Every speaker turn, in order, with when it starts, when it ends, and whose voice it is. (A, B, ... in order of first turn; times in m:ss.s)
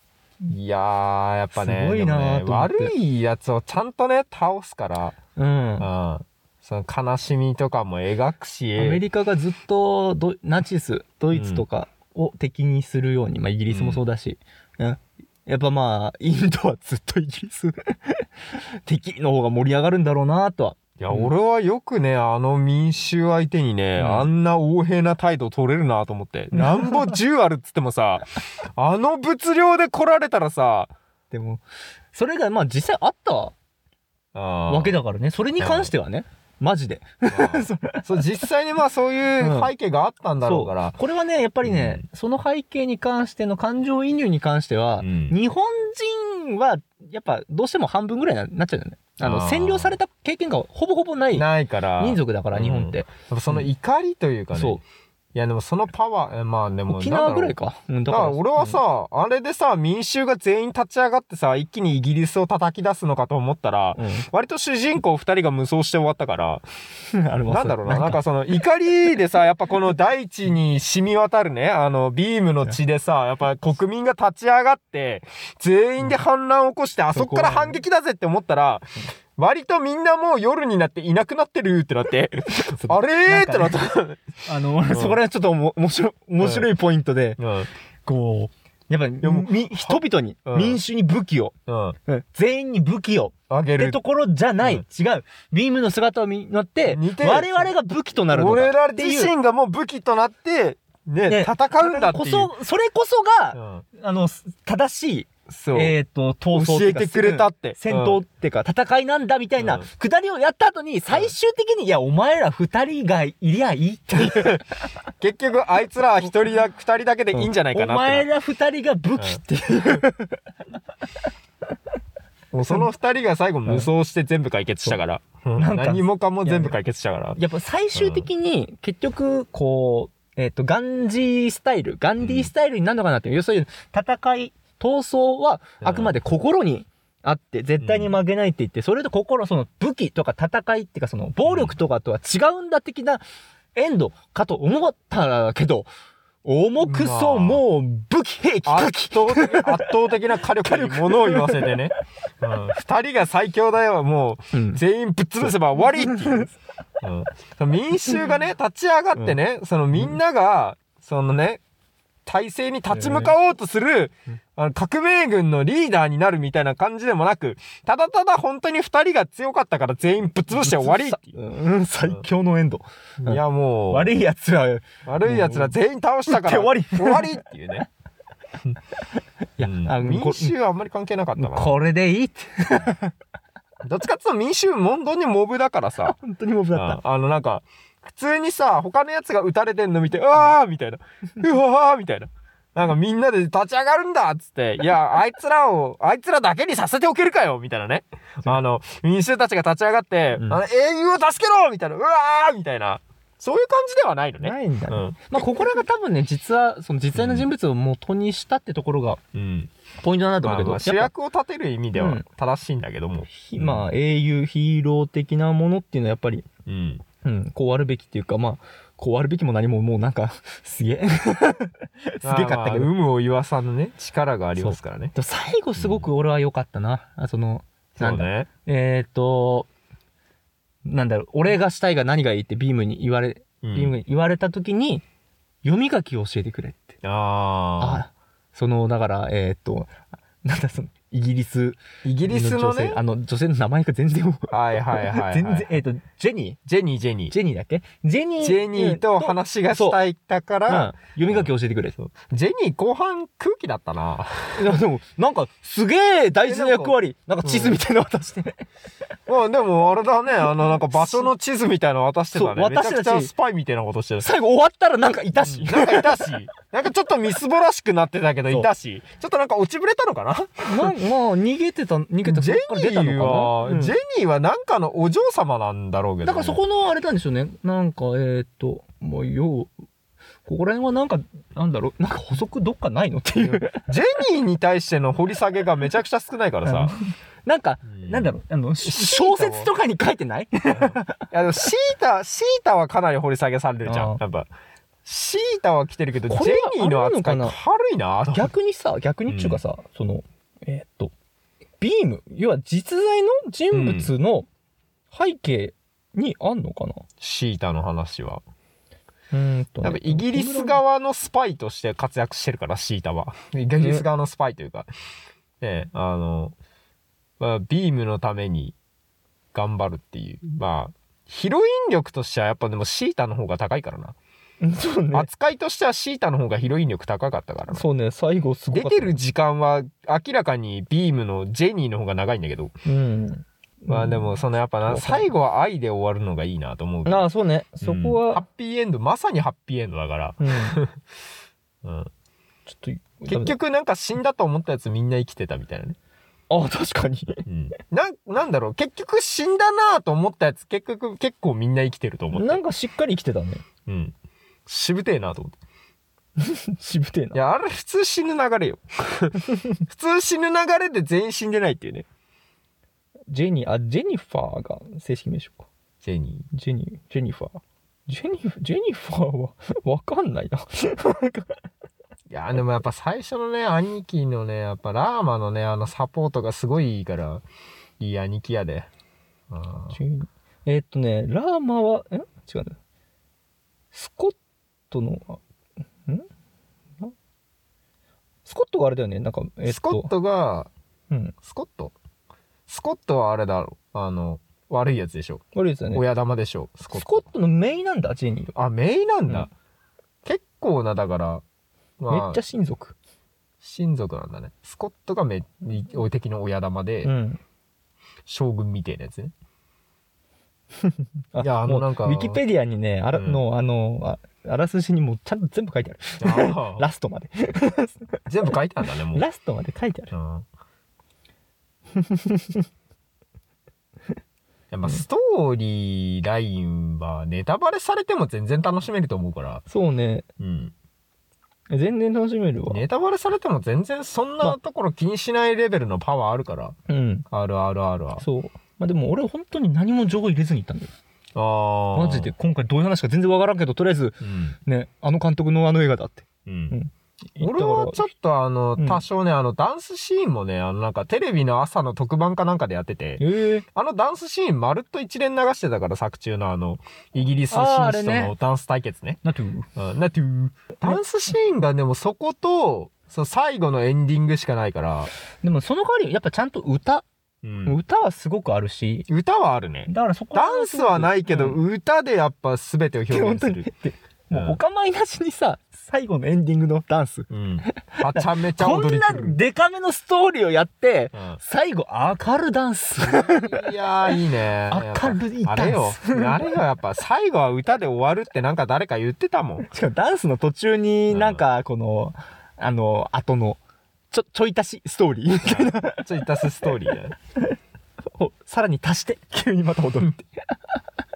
0:00.5-0:05.2 A
0:01.5-0:02.9 B
0:05.4-0:05.9 B
0:05.8-0:09.0 A
0:08.8-0:18.3 B
0:11.3-0:11.6 A
0:13.7-0:14.0 A
0:18.8-0:21.3 B
0:21.0-0:28.2 A
0:24.0-0:24.3 B
0:26.5-0:27.1 B
0:28.8-0:30.9 A
0:31.3-0:33.5 B
0:34.3-0:35.0 A
0:34.7-0:38.2 B
0:35.6-0:35.9 A
0:37.3-0:41.0 A
0:39.4-0:39.7 B
0:40.4-0:51.4 B
0:41.6-0:42.0 A
0:45.0-0:45.3 A
0:49.2-0:50.0 A
0:51.3-0:54.8 A
0:52.0-0:53.6 B
0:54.5-0:54.8 B
0:55.3-0:57.6 A
0:56.9-0:58.8 B
0:58.1-1:06.6 A
1:04.0-1:04.3 B
1:07.1-1:08.2 B
1:07.5-1:24.2 A
1:17.1-1:17.8 B
1:22.6-1:27.4 B
1:24.9-1:25.2 A
1:26.4-1:26.7 A
1:27.4-1:27.7 A
1:28.0-1:31.5 B
1:29.2-1:30.8 A
1:31.7-1:32.0 A
1:32.0-1:39.3 B
1:33.5-1:34.0 A
1:36.8-1:37.7 A
1:38.3-1:42.5 A
1:41.3-1:54.6 B
1:43.5-1:43.8 A
1:45.5-1:45.9 A
1:46.5-1:48.2 A
1:49.6-1:49.8 A
1:54.2-1:54.6 A
1:55.2-1:58.2 A
1:57.3-2:00.4 B
2:02.5-2:07.4 A
2:05.6-2:06.7 B
2:07.4-2:23.2 B
2:07.9-2:08.3 A
2:12.2-2:12.5 A
2:15.8-2:16.1 A
2:17.8-2:18.1 A
2:21.4-2:21.8 A
2:23.8-2:25.9 B
2:26.4-2:31.9 B
2:26.8-2:27.6 A
2:28.6-2:36.5 A
2:34.5-2:34.8 B
2:35.4-2:36.5 B
2:37.0-2:41.6 A
2:42.2-2:51.4 A
2:42.9-2:43.3 B
2:50.5-2:55.7 B
2:53.2-2:54.1 A
2:55.0-2:57.9 A
2:56.3-2:57.4 B
2:59.6-3:00.5 B
2:59.6-3:01.8 A
3:01.4-3:03.1 B
3:03.8-3:06.2 A
3:06.0-3:07.0 B
3:06.7-3:25.8 A
3:24.4-3:29.2 B
3:27.1-3:27.5 A
3:29.3-3:29.7 A
3:30.0-3:31.1 B
3:30.4-3:33.8 A
3:32.0-3:32.2 B
3:33.3-3:36.5 B
3:36.6-3:37.0 A
3:37.2-3:42.9 B
3:42.2-3:45.1 A
3:44.6-3:49.7 B
3:45.8-3:46.0 A
3:48.0-3:48.5 A
3:50.8-3:55.0 B
3:53.6-3:54.0 A
3:55.6-3:57.0 B
3:57.0-3:58.0 A
3:57.8-3:59.9 B
4:00.4-4:06.6 B
4:02.0-4:03.0 A
4:04.5-4:05.7 A
4:06.7-4:07.3 A
4:07.3-4:10.0 B
4:08.4-4:14.6 A
4:10.7-4:11.9 B
4:14.6-4:18.6 B
4:16.4-4:17.8 A
4:19.3-4:24.2 A
4:20.6-4:21.3 B
4:22.3-4:23.3 B
4:24.2-4:26.3 B
4:25.4-4:30.9 A
4:30.6-4:33.9 B
4:32.2-4:36.6 A
4:36.2-4:39.7 B
4:40.4-4:43.8 B
4:43.4-4:46.9 A
4:46.6-4:51.3 B
4:47.9-4:49.7 A
4:50.7-4:54.5 A
4:53.8-4:54.2 B
4:55.0-4:58.5 A
4:56.3-4:57.6 B
4:58.3-5:01.1 B
4:59.3-4:59.6 A
5:01.8-5:04.5 B
5:03.7-5:04.1 A
5:05.1-5:07.0 B
5:07.2-5:08.4 A
5:09.3-5:10.8 B
5:09.8-5:14.9 A
5:13.8-5:14.0 B
5:15.6-5:16.5 A
5:17.4-5:18.8 A
5:19.5-5:24.2 A
5:24.6-5:25.3 B
5:25.1-5:27.8 A
5:27.7-5:29.2 B
5:28.7-5:32.7 A
5:32.8-5:34.3 B
5:33.9-5:37.2 A
5:34.8-5:35.3 B
5:37.0-5:38.4 B
5:37.8-5:41.0 A
5:40.4-5:40.8 B
5:41.8-5:42.1 A
5:42.7-5:43.5 B
5:43.2-5:46.0 A
5:46.5-5:47.5 B
5:47.5-5:52.6 A
5:52.3-5:53.6 B
5:53.9-5:54.1 A
5:54.6-5:55.5 A
5:56.4-5:57.4 B
5:57.3-6:02.0 A
5:59.5-5:59.8 B
6:03.3-6:05.7 B
6:06.0-6:06.4 A
6:06.5-6:11.6 B
6:12.3-6:17.4 A
6:18.0-6:18.9 A
6:19.5-6:20.0 A
6:19.9-6:22.8 B
6:23.9-6:24.4 B
6:24.9-6:25.4 B
6:28.4-6:30.1 B
6:29.7-6:30.7 A
6:31.4-6:31.9 A
6:32.7-6:37.2 A
6:35.5-6:36.0 B
6:36.9-6:38.5 B
6:38.5-6:39.5 A
6:40.2-6:41.4 A
6:42.0-6:42.4 A
6:42.1-6:42.9 B
6:43.6-6:47.1 A
6:47.0-6:47.4 B
6:48.3-6:49.3 A
6:50.8-6:58.1 B
6:51.4-6:52.4 A
6:53.1-6:53.4 A
6:56.2-6:56.8 A
6:58.3-6:59.2 A
6:59.1-7:00.1 B
7:00.1-7:00.4 A
7:01.9-7:02.6 B
7:04.7-7:09.6 A
7:09.7-7:10.2 B
7:10.4-7:10.7 A
7:11.7-7:12.8 B
7:12.7-7:16.7 A
7:16.9-7:17.2 B
7:17.3-7:18.2 A
7:18.2-7:20.9 B
7:21.3-7:22.3 A
7:21.9-7:28.1 B
7:24.2-7:24.5 A
7:26.4-7:26.7 A
7:27.4-7:33.2 A
7:28.8-7:29.0 B
7:33.2-7:33.6 B
7:33.7-7:39.2 A
7:37.5-7:38.3 B
7:39.2-7:39.7 B
7:39.8-7:45.1 A
7:45.4-7:47.0 B
7:47.4-7:47.8 A
7:47.6-7:49.1 B
7:49.1-7:53.7 A
7:49.9-7:51.6 B
7:53.1-8:03.7 B
7:54.3-7:54.6 A
7:57.3-7:59.4 A
8:03.0-8:09.7 A
8:04.7-8:06.5 B
8:09.6-8:13.6 B
8:11.1-8:11.4 A
8:14.1-8:16.4 B
8:15.4-8:17.1 A
8:18.1-8:20.8 B